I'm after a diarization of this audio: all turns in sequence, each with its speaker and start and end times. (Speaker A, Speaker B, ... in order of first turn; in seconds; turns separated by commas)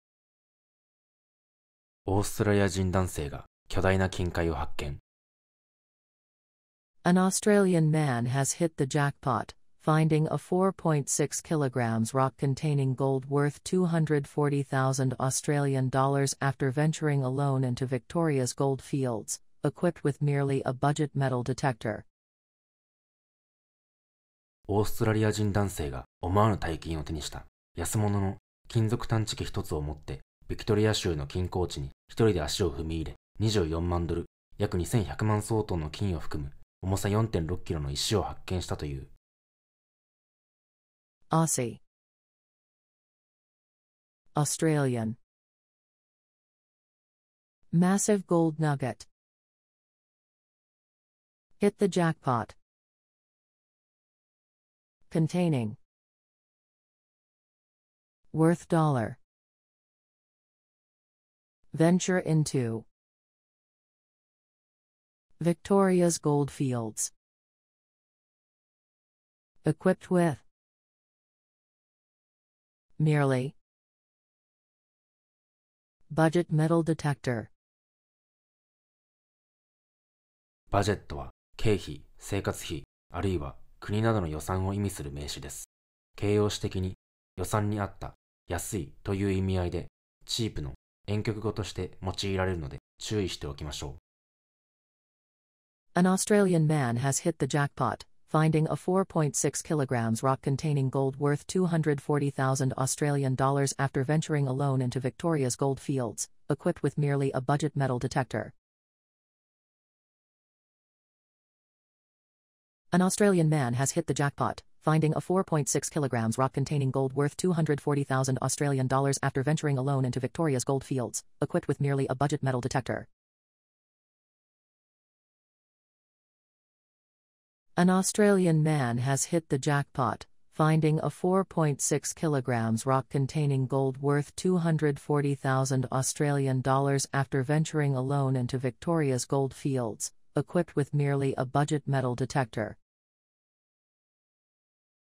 Speaker A: 2.1-5.0, Speaker B: 7.0-22.1, Speaker A: 24.7-39.1, Speaker B: 41.3-41.8, Speaker B: 44.3-45.2, Speaker B: 47.7-49.1, Speaker B: 51.6-52.5, Speaker B: 55.1-55.8, Speaker B: 58.3-59.2, Speaker B: 61.7-62.9, Speaker B: 65.4-67.1, Speaker B: 69.6-70.4, Speaker B: 73.0-73.5, Speaker B: 76.1-77.5, Speaker A: 80.7-94.0, Speaker B: 95.9-108.5, Speaker B: 112.9-123.1, Speaker B: 127.8-142.8